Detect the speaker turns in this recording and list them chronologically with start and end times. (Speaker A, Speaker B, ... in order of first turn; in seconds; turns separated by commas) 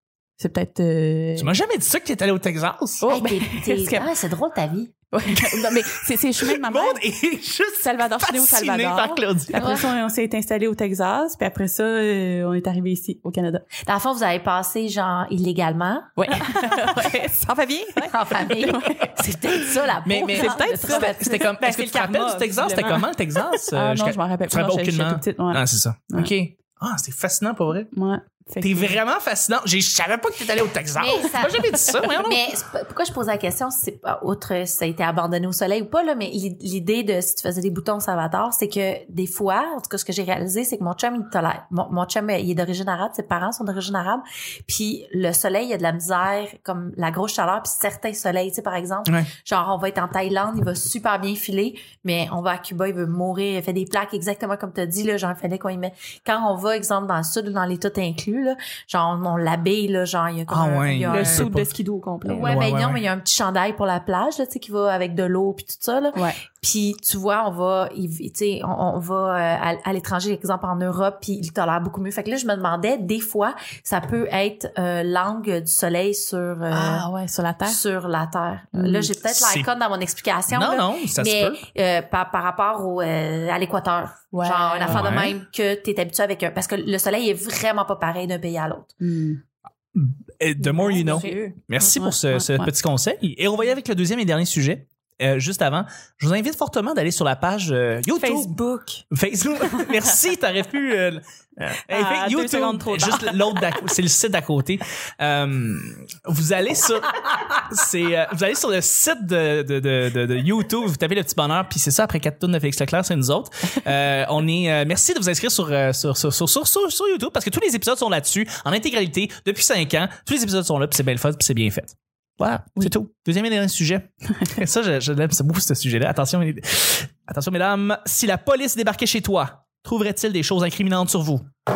Speaker A: 0.4-1.5, Speaker B: 1.4-3.1, Speaker A: 3.0-4.1, Speaker C: 3.1-4.9, Speaker A: 5.1-7.0, Speaker B: 5.4-5.8, Speaker B: 6.4-9.7, Speaker A: 7.8-13.7, Speaker C: 9.5-9.9, Speaker C: 13.8-16.2, Speaker A: 16.2-19.2, Speaker C: 18.0-21.4, Speaker B: 20.1-27.9, Speaker A: 20.3-21.4, Speaker D: 21.6-23.1, Speaker A: 23.7-26.3, Speaker A: 27.9-29.0, Speaker B: 28.6-32.4, Speaker C: 31.0-61.5, Speaker B: 60.5-61.7, Speaker D: 61.1-62.6, Speaker C: 62.2-77.1, Speaker B: 62.4-63.0, Speaker A: 76.7-77.8, Speaker C: 77.7-89.0, Speaker A: 78.8-79.1, Speaker B: 79.2-79.7, Speaker B: 80.5-81.6, Speaker A: 84.3-85.1, Speaker B: 84.9-85.3, Speaker A: 89.0-89.4, Speaker B: 90.0-98.5, Speaker A: 90.9-92.7, Speaker D: 91.0-91.3, Speaker C: 91.1-91.4, Speaker D: 98.2-99.0, Speaker B: 99.1-131.5, Speaker D: 101.9-103.4